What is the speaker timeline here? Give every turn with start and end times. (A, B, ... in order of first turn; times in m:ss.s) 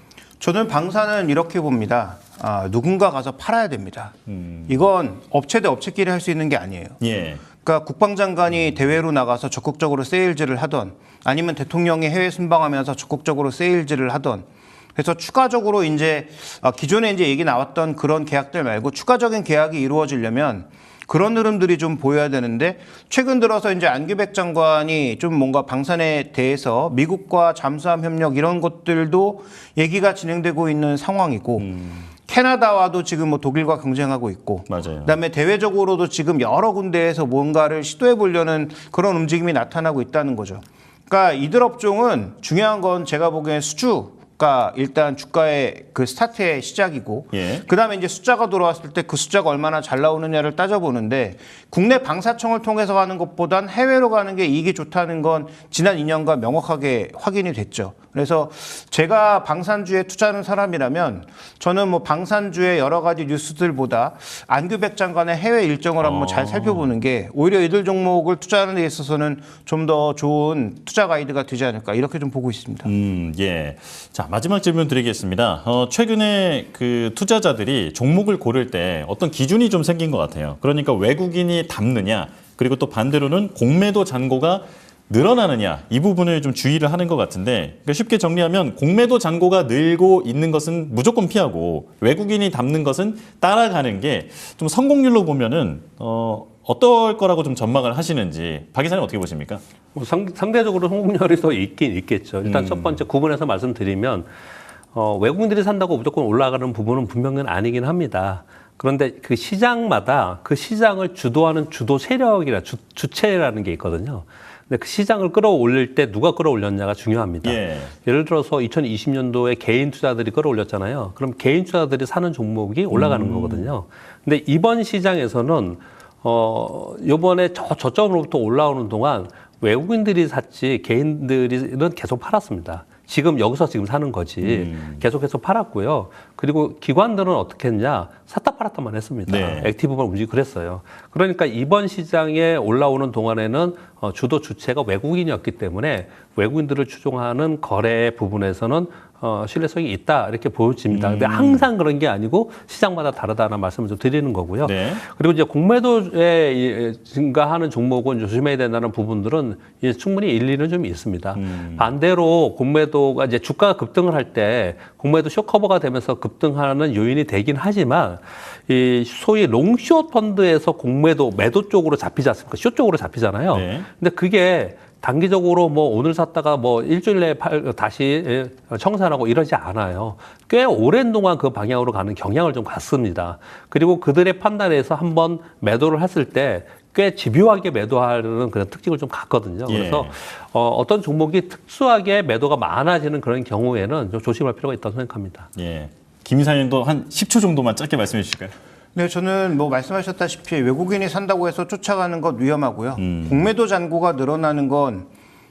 0:00.4-0:04.1 A
0:04.3-0:04.9 B
0:04.7-0:07.0 A
0:07.0-0:07.4 B
0:07.6-0:14.4 A
0:15.0-0:31.7 A
0:31.6-0:32.1 B
0:32.2-1:12.9 A
0:34.7-0:35.2 B
0:47.3-0:47.6 B
1:06.0-1:06.9 B
1:12.8-1:39.6 B
1:39.9-1:44.3 C
1:42.4-1:43.0 B
1:44.9-3:15.5 C
1:57.4-1:57.9 B
2:02.9-2:03.7 B
2:14.4-2:15.0 B
2:19.3-2:19.7 B
2:30.9-2:31.7 B
2:34.6-2:35.0 B
2:41.4-2:41.9 B
2:53.5-2:53.8 B
3:09.7-3:10.1 B
3:15.6-3:18.5 B
3:18.9-3:25.1 A
3:23.0-3:23.5 B